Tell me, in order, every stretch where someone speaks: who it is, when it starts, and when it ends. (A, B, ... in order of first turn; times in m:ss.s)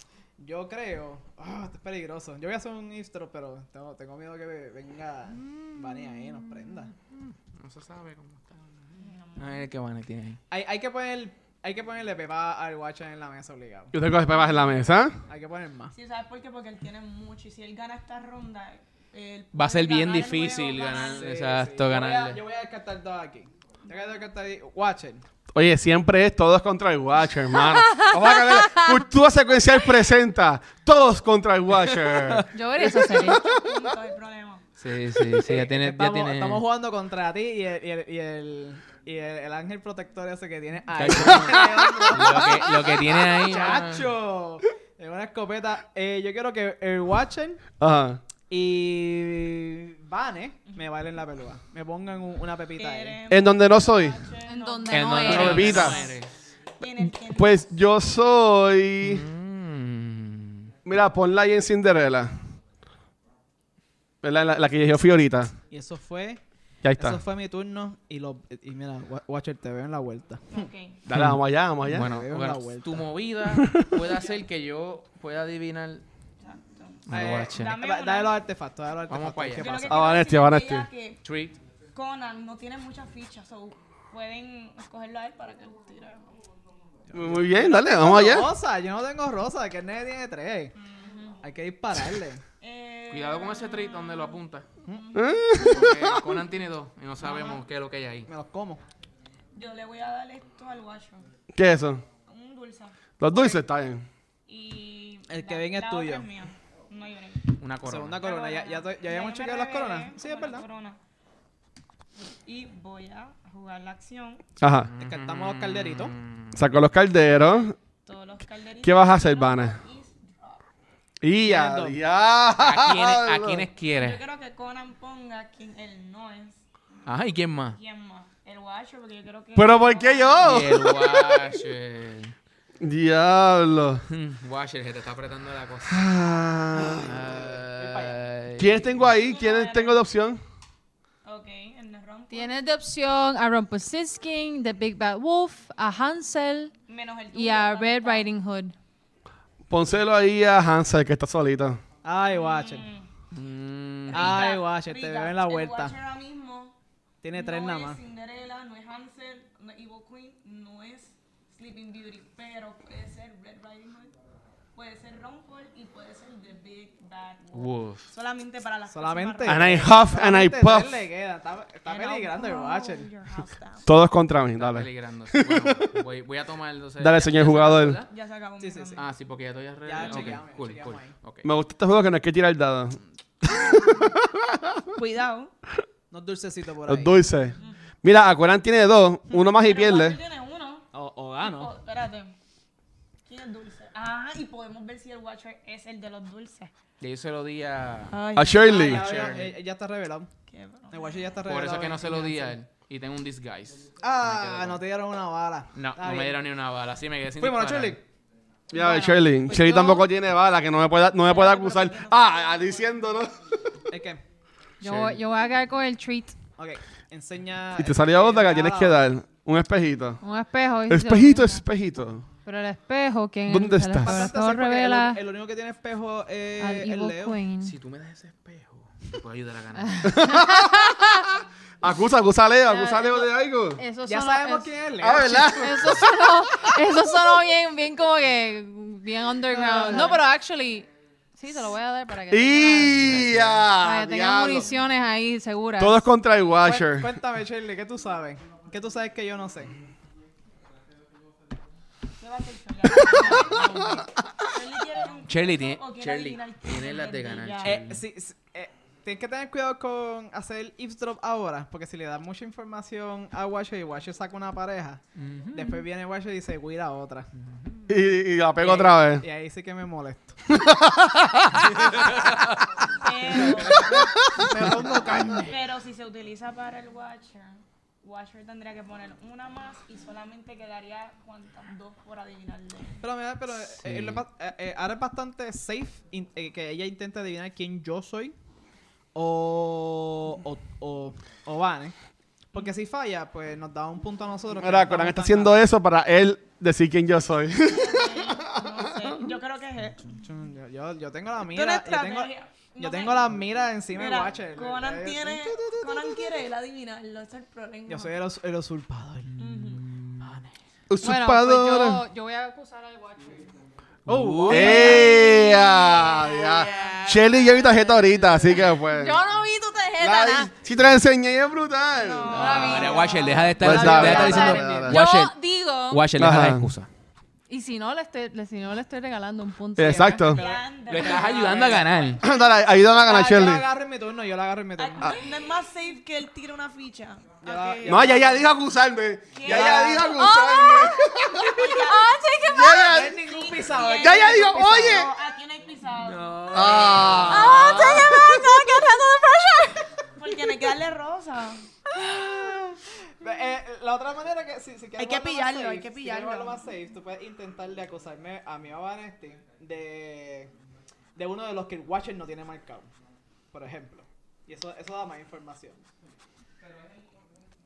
0:00.4-0:06.9 A
0:07.1-0:10.4 B
0:09.0-0:09.7 C
0:10.5-0:13.9 A
0:13.9-0:15.2 D
0:14.3-0:14.8 C
0:15.3-0:15.9 A
0:15.9-0:21.3 C
0:19.5-0:22.4 B
0:21.1-0:25.2 A
0:25.5-0:33.6 D
0:27.6-0:29.0 E
0:31.9-0:32.4 B
0:32.5-0:33.5 E
0:33.5-0:34.6 C
0:34.8-0:36.6 B
0:35.4-0:47.6 A
0:41.0-0:44.1 B
0:47.8-0:48.2 D
0:48.5-0:53.2 A
0:52.8-0:56.2 C
0:53.3-0:54.2 D
0:54.4-0:56.0 E
0:54.9-0:56.3 B
0:55.2-0:56.0 D
0:56.8-0:57.7 C
0:57.2-0:59.3 D
0:59.0-1:00.7 B
1:00.8-1:02.3 D
1:04.2-1:05.5 D
1:05.7-1:06.4 A
1:06.8-1:07.2 D
1:06.9-1:10.7 A
1:10.5-1:11.0 C
1:11.0-1:12.1 D
1:11.1-1:16.0 B
1:11.9-1:13.1 A
1:13.5-1:14.0 D
1:16.4-1:18.4 C
1:17.1-1:17.8 B
1:17.1-1:20.0 A
1:19.1-1:19.8 B
1:19.6-1:21.2 C
1:19.9-1:20.9 D
1:21.2-1:21.6 B
1:21.9-1:26.3 C
1:27.1-1:30.7 A
1:27.1-1:28.5 D
1:30.8-1:31.4 C
1:31.4-1:32.4 A
1:32.6-1:35.6 C
1:33.1-1:34.6 B
1:34.8-1:35.1 A
1:35.1-1:36.2 D
1:35.6-1:38.3 B
1:37.2-1:37.6 A
1:38.3-1:38.8 A
1:39.5-1:41.2 C
1:41.5-1:42.0 D
1:42.2-1:43.6 C
1:43.2-1:44.0 D
1:44.5-1:47.6 C
1:45.3-1:46.3 A
1:47.6-1:48.2 B
1:47.8-1:50.6 A
1:48.2-1:51.0 C
1:52.4-1:54.4 C
1:54.6-1:54.9 D
1:54.9-1:56.6 B
1:55.0-1:56.1 A
1:56.5-1:57.7 D
1:57.4-2:00.6 C
1:58.8-1:59.8 D
2:01.2-2:03.7 D
2:01.4-2:02.0 A
2:02.6-2:04.2 B
2:04.0-2:06.6 C
2:07.0-2:07.8 B
2:07.7-2:10.6 C
2:09.5-2:11.4 D
2:10.4-2:12.3 B
2:12.8-2:14.0 D
2:14.1-2:16.0 B
2:15.8-2:17.2 D
2:16.8-2:19.0 B
2:17.0-2:18.2 A
2:18.6-2:20.4 D
2:19.2-2:20.0 C
2:21.2-2:22.5 C
2:22.3-2:26.7 E
2:26.9-2:28.3 C
2:27.3-2:28.7 E
2:29.7-2:31.8 D
2:32.0-2:32.9 A
2:32.3-2:33.1 C
2:33.3-2:34.5 B
2:34.1-2:36.7 C
2:34.1-2:35.9 A
2:37.2-2:38.0 A
2:37.3-2:44.1 C
2:44.7-2:49.9 C
2:47.5-2:48.1 B
2:48.9-2:53.1 A
2:49.4-2:51.0 D
2:51.8-2:53.9 C
2:53.8-2:55.9 D
2:54.6-2:58.1 B
2:57.0-2:58.0 D
2:58.0-2:59.0 C
2:58.6-2:59.0 A
2:59.0-3:01.5 B
2:59.8-3:01.1 A
3:00.0-3:00.3 C
3:01.4-3:04.9 D
3:05.0-3:05.5 C
3:06.1-3:07.2 A
3:06.8-3:10.2 D
3:09.3-3:10.8 C
3:10.9-3:11.7 A
3:11.4-3:12.3 C
3:13.2-3:16.7 C
3:17.0-3:18.2 B
3:18.1-3:19.1 C
3:18.3-3:19.0 D
3:18.6-3:20.3 A
3:18.7-3:19.5 B
3:20.5-3:21.4 C
3:20.9-3:22.6 A
3:21.5-3:24.8 B
3:24.0-3:26.4 A
3:25.7-3:28.0 B
3:27.4-3:28.0 A
3:28.7-3:33.4 D
3:28.7-3:30.0 E
3:31.2-3:33.1 C
3:33.9-3:34.2 A
3:34.8-3:36.4 E
3:34.8-3:35.2 B
3:36.6-3:39.0 A
3:37.8-3:40.2 D
3:40.2-3:41.6 E
3:40.9-3:42.2 D
3:42.4-3:45.2 E
3:43.5-3:44.3 D
3:44.0-3:47.4 A
3:46.6-3:47.7 E
3:47.6-3:50.1 B
3:49.8-3:51.2 E
3:50.0-3:51.3 D
3:51.8-3:53.8 D
3:53.8-4:06.0 E
3:54.0-3:56.0 A
3:55.0-3:56.0 D
3:59.5-4:00.2 A
4:02.3-4:04.7 D
4:02.9-4:03.6 B
4:05.8-4:07.2 D
4:06.6-4:09.7 A
4:12.2-4:17.8 C
4:13.1-4:13.8 D
4:15.3-4:18.0 B
4:17.6-4:25.0 A
4:25.2-4:25.8 B
4:25.5-4:27.3 A
4:27.9-4:29.2 D
4:28.6-4:30.4 A
4:30.5-4:31.8 D
4:31.9-4:32.5 B
4:33.0-4:33.9 C
4:33.4-4:35.6 A
4:33.7-4:35.4 D
4:35.5-4:43.0 C
4:43.0-4:48.3 A
4:43.8-4:44.2 B
4:49.1-4:51.9 A
4:52.5-4:55.7 A
4:54.6-4:59.2 D
4:57.6-5:00.1 C
5:00.1-5:06.2 A
5:01.4-5:03.3 C
5:03.9-5:08.1 C
5:07.9-5:09.4 A
5:09.4-5:09.8 C
5:09.6-5:10.4 B
5:10.9-5:12.0 D
5:11.0-5:13.5 E
5:14.0-5:15.0 B
5:14.0-5:15.1 A
5:14.5-5:19.2 D
5:14.5-5:16.1 E
5:16.2-5:17.8 B
5:18.6-5:20.5 E
5:20.0-5:22.5 D
5:22.0-5:24.3 C
5:22.3-5:25.3 B
5:22.3-5:26.1 E
5:23.6-5:25.0 D
5:23.8-5:24.8 A
5:25.9-5:26.9 B
5:26.2-5:26.7 D
5:27.5-5:30.3 E
5:29.8-5:30.5 D
5:29.8-5:32.0 A
5:30.2-5:32.4 C
5:30.9-5:32.2 B
5:32.2-5:33.6 D
5:32.9-5:35.2 A
5:34.8-5:38.4 C
5:37.4-5:38.4 A
5:37.8-5:41.8 D
5:39.3-5:40.2 C
5:39.4-5:40.1 A
5:40.1-5:43.0 E
5:41.4-5:42.2 C
5:42.4-5:43.2 D
5:42.7-5:48.8 C
5:42.8-5:45.0 A
5:43.9-5:45.1 D
5:46.0-5:47.8 A
5:46.5-5:48.5 D
5:46.5-5:47.4 B
5:47.1-5:49.9 E
5:50.1-5:51.7 C
5:51.9-6:00.5 A
5:55.0-5:56.6 C
6:01.1-6:02.9 A
6:03.5-6:05.8 A